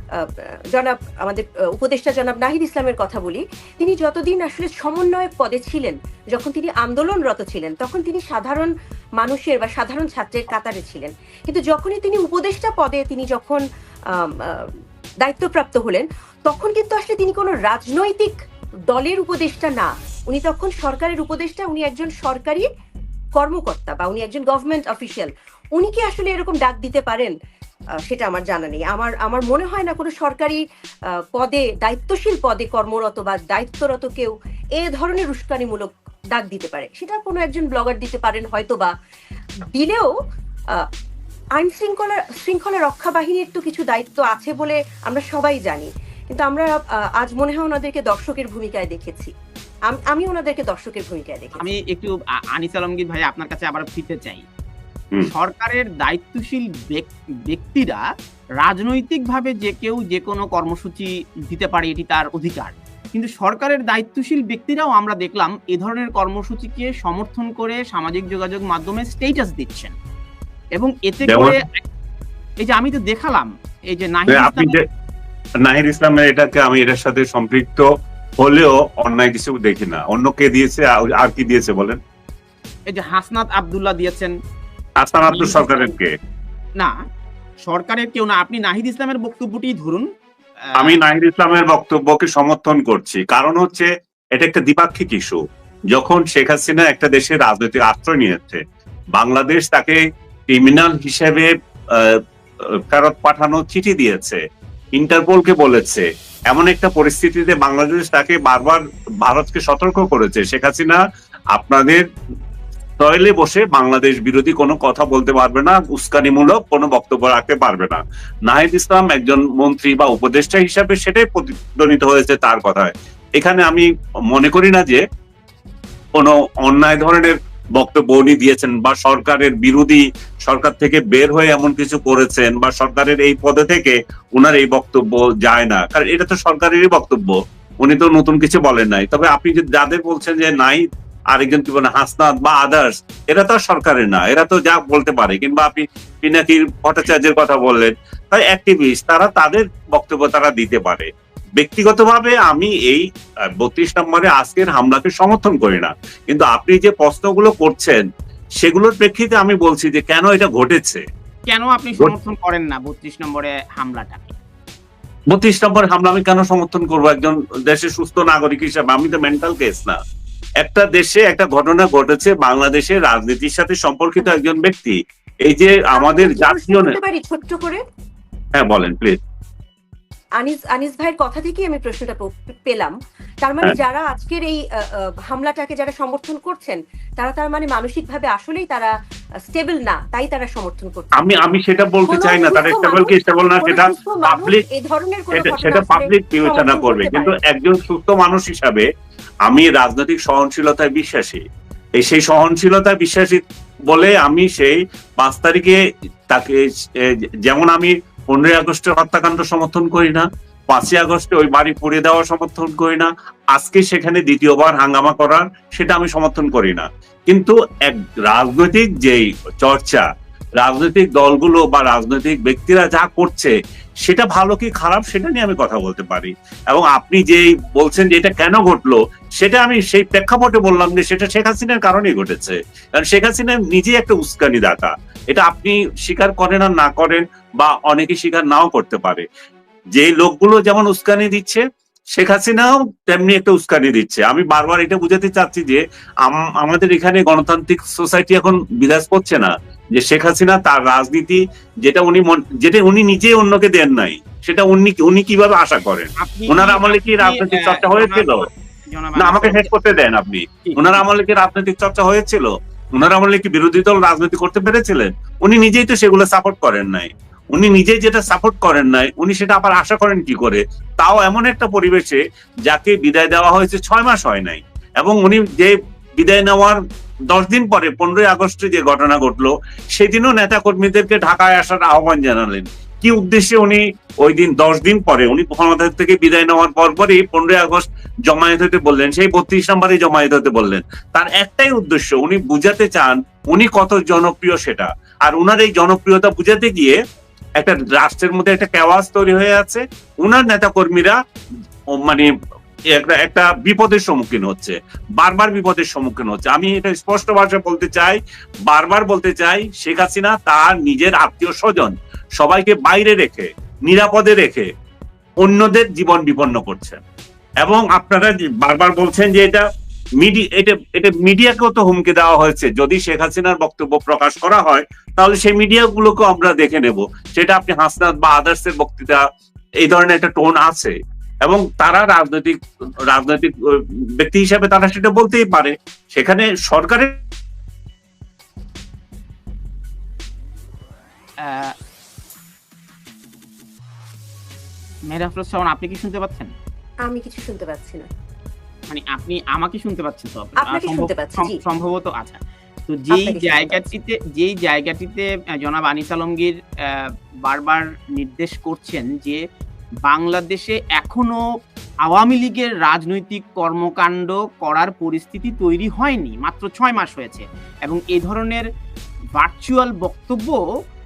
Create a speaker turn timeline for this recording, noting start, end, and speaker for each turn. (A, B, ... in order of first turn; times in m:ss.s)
0:00.2-0:13.6 A
0:14.2-0:14.7 A
0:15.2-0:18.3 A
0:18.9-0:22.6 A
0:23.4-0:27.3 A
0:28.0-0:30.6 A
0:31.3-0:38.9 A
0:39.7-0:40.1 A
0:41.6-0:49.3 A
0:49.9-0:51.6 A
0:51.6-0:54.4 B
0:55.2-0:58.0 B
0:58.6-1:09.9 B
1:10.7-1:11.8 B
1:11.2-1:11.6 C
1:12.6-1:14.8 B
1:14.3-1:14.8 C
1:15.6-1:17.9 C
1:18.4-1:22.0 C
1:22.9-1:24.3 B
1:25.0-1:26.1 C
1:25.3-1:25.9 B
1:27.6-1:30.1 B
1:30.8-1:35.4 C
1:35.9-1:38.6 C
1:39.1-1:42.2 C
1:42.9-1:44.4 C
1:45.0-1:51.0 C
1:51.5-1:52.0 C
1:53.0-2:05.0 C
2:06.2-2:33.0 C
2:33.6-2:38.0 C
2:38.6-2:41.0 C
2:41.5-2:44.4 B
2:45.3-2:50.0 C
2:50.6-2:57.0 C
2:55.9-2:57.8 A
2:58.6-2:59.2 C
3:00.4-3:04.6 A
3:05.3-3:08.9 A
3:09.5-3:11.1 A
3:11.2-3:14.6 C
3:12.1-3:17.3 A
3:15.3-3:18.8 C
3:19.4-3:21.4 C
3:22.0-3:25.8 C
3:26.3-3:40.0 C
3:40.6-3:43.5 C
3:44.0-3:59.2 C
3:59.9-4:01.6 C
4:02.2-4:18.4 C
4:16.2-4:19.7 B
4:19.2-4:36.8 C
4:20.6-4:21.0 B
4:37.3-4:57.0 C
4:57.6-5:01.2 C
5:02.0-5:02.3 C
5:02.9-5:14.7 C
5:15.4-5:17.0 C
5:17.6-5:19.6 C
5:20.2-5:29.2 C
5:29.8-5:30.9 C
5:31.4-5:32.5 C
5:33.1-5:33.5 C
5:34.2-5:37.1 C
5:41.4-5:41.7 B
5:45.1-5:46.5 B
5:47.0-5:48.1 A
5:48.9-5:59.4 B
5:50.6-5:51.6 A
5:53.1-5:53.8 A
6:00.0-6:01.4 B
6:02.0-6:08.6 B
6:09.4-6:10.6 B